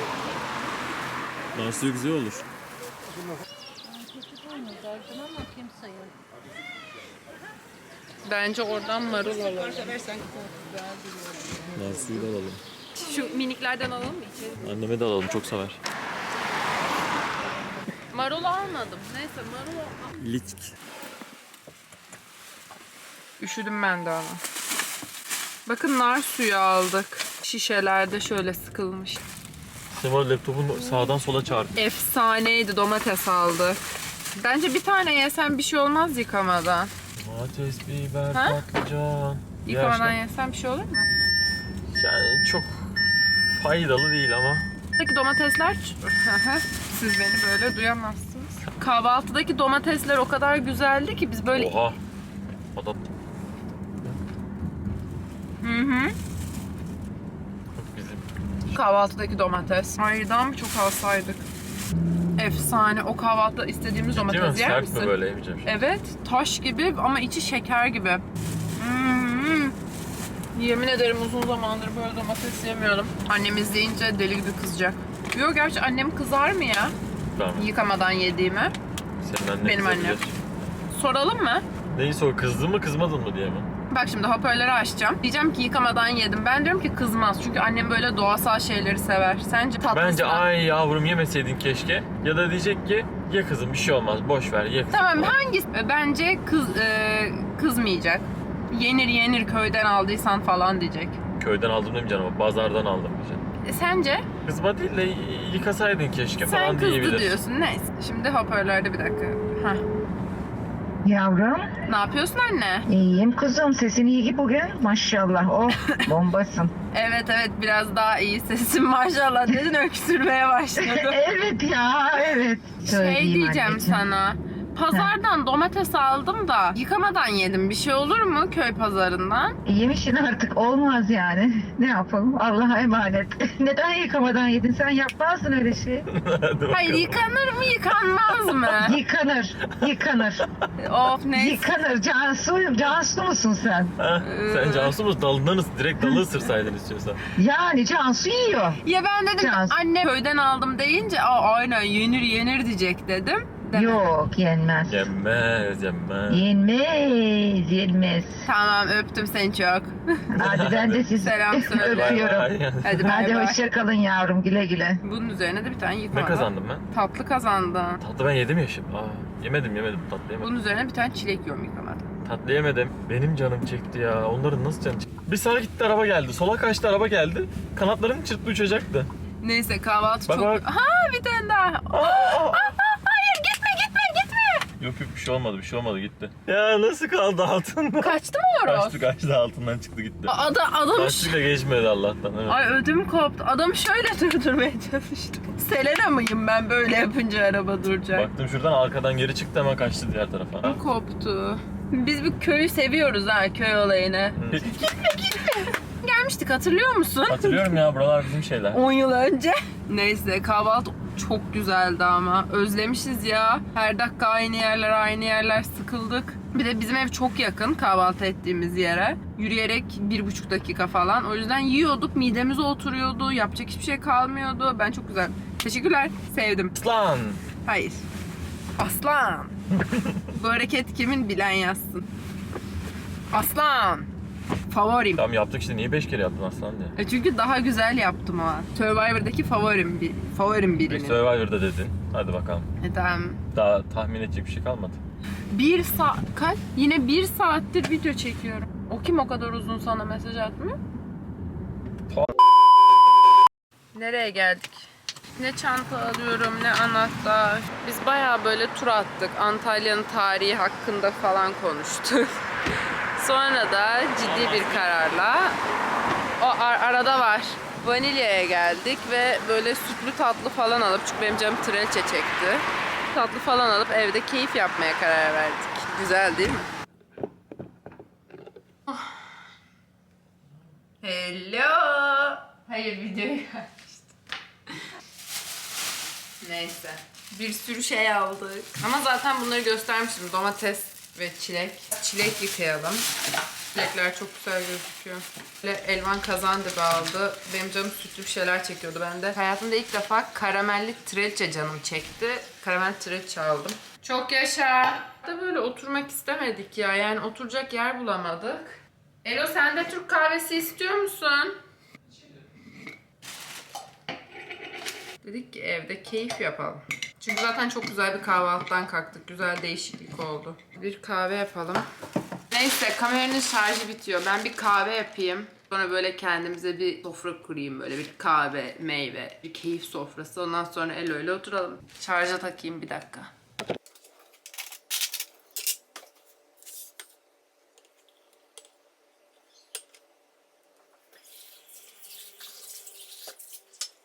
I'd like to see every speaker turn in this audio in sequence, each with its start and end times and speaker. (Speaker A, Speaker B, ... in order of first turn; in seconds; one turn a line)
Speaker A: 1.5-2.5
Speaker B: 8.2-10.7
Speaker A: 11.7-12.6
Speaker B: 12.9-14.6
Speaker A: 14.6-15.8
Speaker B: 18.1-20.0
Speaker A: 20.2-20.7
Speaker B: 23.4-24.4
Speaker B: 25.7-29.2
Speaker A: 29.9-31.8
Speaker B: 31.8-33.8
Speaker B: 34.4-36.9
Speaker A: 37.2-40.2
Speaker B: 38.3-38.6
Speaker B: 39.6-41.1
Speaker A: 41.9-44.7
Speaker B: 45.0-51.7
Speaker A: 51.5-52.0
Speaker A: 52.7-53.0
Speaker B: 55.6-56.2
Speaker A: 57.8-58.3
Speaker B: 58.7-61.5
Speaker B: 62.4-68.2
Speaker A: 64.1-65.7
Speaker B: 68.8-69.8
Speaker B: 70.5-77.0
Speaker A: 77.3-77.7
Speaker B: 77.6-78.8
Speaker A: 79.2-80.8
Speaker B: 79.6-80.2
Speaker B: 80.9-81.7
Speaker A: 81.9-83.7
Speaker B: 83.9-90.5
Speaker A: 89.9-95.4
Speaker B: 94.9-101.2
Speaker A: 101.4-103.5
Speaker B: 103.6-104.3
Speaker A: 104.5-107.4
Speaker B: 106.4-109.8
Speaker C: 111.0-111.7
Speaker B: 111.9-112.9
Speaker C: 112.9-116.7
Speaker B: 116.9-121.2
Speaker C: 120.8-124.0
Speaker B: 122.8-129.6
Speaker C: 129.7-136.1
Speaker A: 136.1-137.2
Speaker B: 136.7-139.0
Speaker C: 138.8-140.5
Speaker B: 140.8-141.7
Speaker C: 141.3-143.9
Speaker A: 144.0-147.2
Speaker B: 144.2-145.0
Speaker C: 147.4-148.8
Speaker B: 148.8-154.1
Speaker C: 149.4-149.8
Speaker C: 153.7-155.1
Speaker A: 154.9-156.5
Speaker C: 156.3-158.5
Speaker B: 158.4-160.3
Speaker C: 160.3-165.0
Speaker A: 160.4-161.1
Speaker B: 161.1-162.2
Speaker A: 161.7-163.1
Speaker B: 162.8-163.6
Speaker B: 165.0-168.0
Speaker A: 166.1-166.9
Speaker A: 168.0-170.5
Speaker B: 170.4-172.1
Speaker A: 172.2-179.1
Speaker B: 179.4-184.7
Speaker A: 180.3-180.6
Speaker A: 181.9-182.7
Speaker A: 184.8-190.4
Speaker B: 188.0-189.0
Speaker B: 190.3-191.3
Speaker A: 190.9-192.6
Speaker B: 192.5-198.3
Speaker A: 198.1-200.8
Speaker B: 200.6-207.8
Speaker A: 204.4-204.8
Speaker A: 207.3-208.8
Speaker B: 208.7-226.8
Speaker A: 226.8-227.4
Speaker B: 227.7-228.0
Speaker B: 228.8-229.6
Speaker A: 229.8-230.2
Speaker B: 230.3-232.1
Speaker B: 233.3-234.1
Speaker B: 234.7-235.2
Speaker A: 235.2-236.9
Speaker B: 236.9-241.2
Speaker A: 240.8-242.7
Speaker B: 242.8-243.4
Speaker A: 243.5-245.0
Speaker B: 245.5-250.8
Speaker A: 252.1-252.4
Speaker B: 253.9-262.4
Speaker B: 263.2-265.6
Speaker A: 264.2-265.2
Speaker B: 266.4-276.7
Speaker B: 278.9-279.3
Speaker B: 281.0-284.1
Speaker B: 286.4-293.1
Speaker B: 293.7-311.6
Speaker B: 315.2-321.9
Speaker B: 322.5-333.3